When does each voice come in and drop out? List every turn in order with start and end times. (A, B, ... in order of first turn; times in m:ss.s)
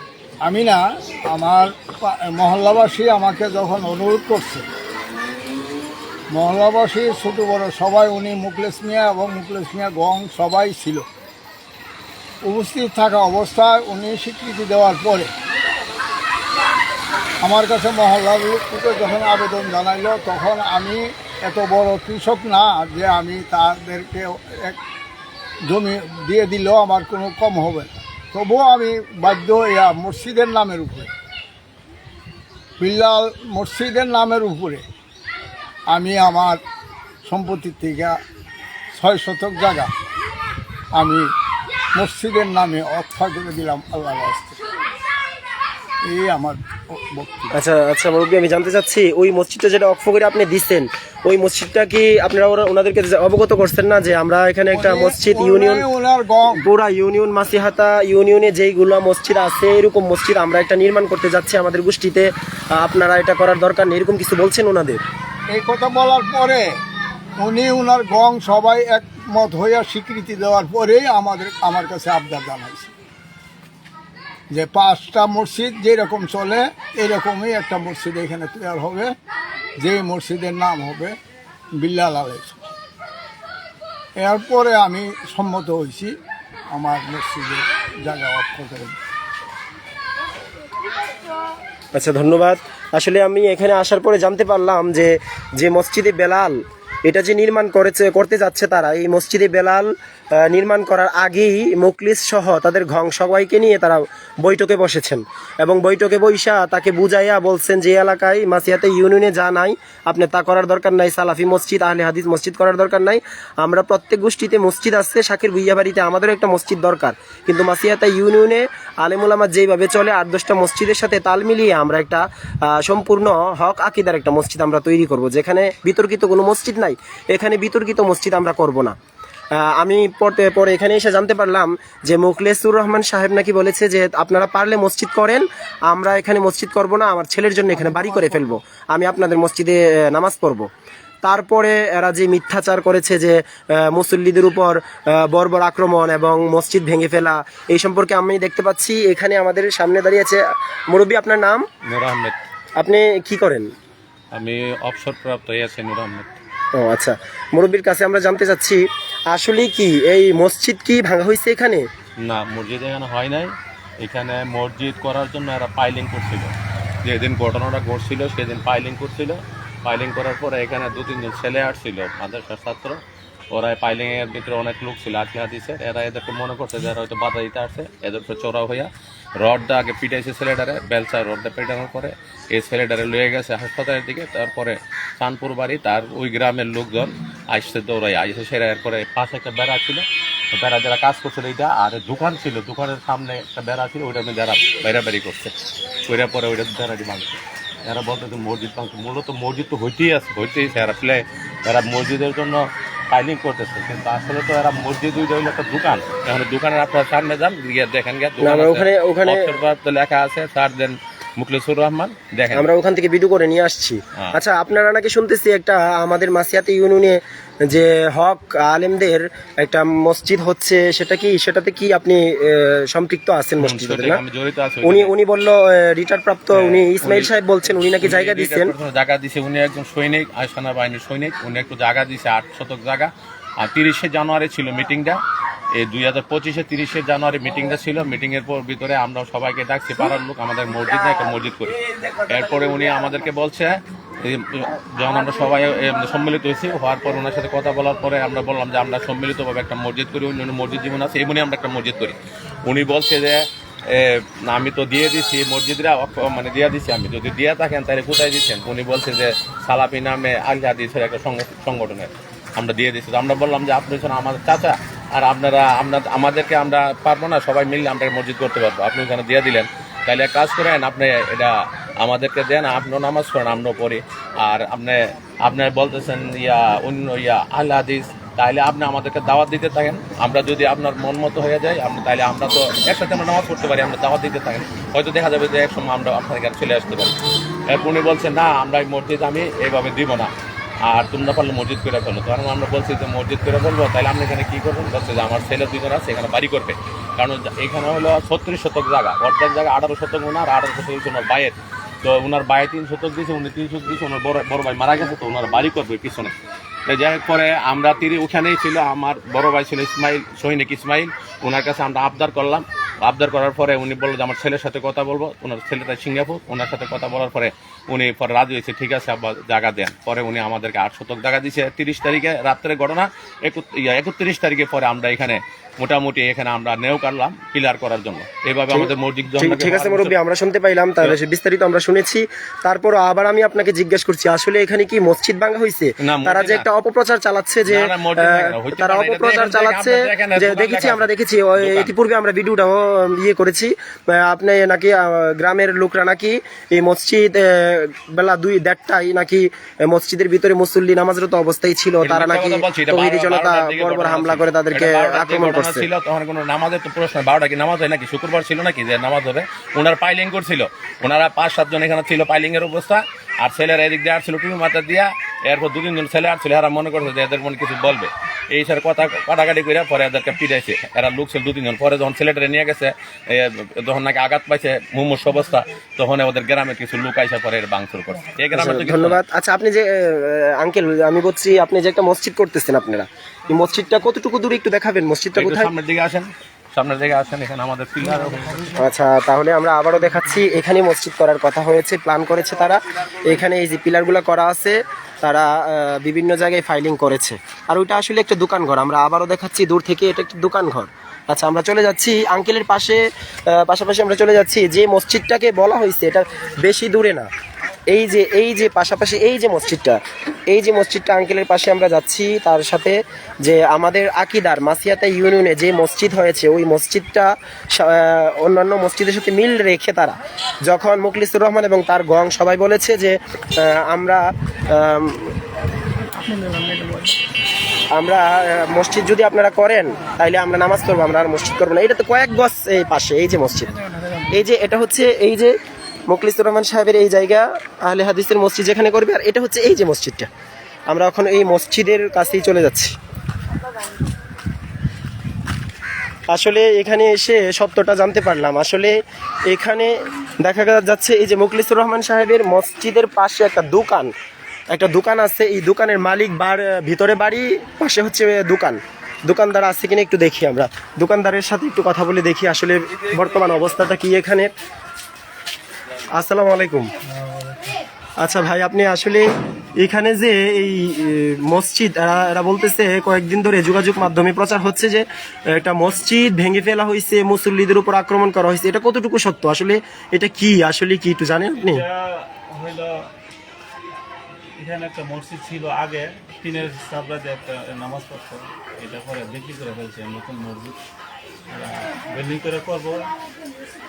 0:00.4-0:04.7 A
0:06.3-0:11.1 A
0:12.4-0:15.3 A
0:17.4-0:24.8 A
0:25.6-0:31.1 A
0:32.8-0:34.8 A
0:35.9-0:36.6 A
0:37.2-0:38.2 A
0:38.9-0:39.9 A
0:40.9-0:41.3 A
0:42.0-0:44.6 A
0:46.0-0:47.5 A
0:47.5-0:55.9 B
0:54.7-0:56.7 A
0:56.6-1:05.0 B
1:05.5-1:06.7 A
1:07.4-1:12.9 A
1:14.5-1:19.1 A
1:19.8-1:21.2 A
1:21.7-1:22.7 A
1:24.2-1:26.2 A
1:26.7-1:29.0 A
1:32.0-2:09.0 B
2:09.5-2:20.7 B
2:21.2-2:31.7 B
2:31.9-2:32.4 C
2:32.8-2:33.7 B
2:34.3-2:36.3 C
2:36.8-2:41.8 B
2:42.3-2:46.5 C
2:47.0-2:53.0 C
2:53.5-3:15.5 C
3:16.1-3:32.7 C
3:28.4-3:29.6 B
3:32.5-3:44.2 B
3:43.6-3:45.1 C
3:44.8-3:48.7 B
3:46.5-3:47.3 C
3:48.0-3:55.2 C
3:55.8-4:47.2 C
4:47.7-4:50.3 C
4:50.9-5:06.3 C
5:06.9-5:30.1 C
5:28.7-5:55.9 B
5:36.0-5:36.7 C
5:37.7-5:41.9 C
5:52.0-6:19.2 C
6:18.5-6:25.7 B
6:25.4-6:28.8 C
6:28.8-6:47.3 B
6:47.9-7:05.4 B
7:07.9-7:15.6 B
7:16.1-7:20.3 B
7:20.9-7:23.0 B
7:26.3-7:29.0 B
7:29.5-7:34.1 B
7:34.7-7:44.5 B
7:46.2-7:46.9 B
7:48.2-8:01.8 B
8:01.5-8:03.1 D
8:04.6-8:10.8 D
8:11.5-8:13.1 D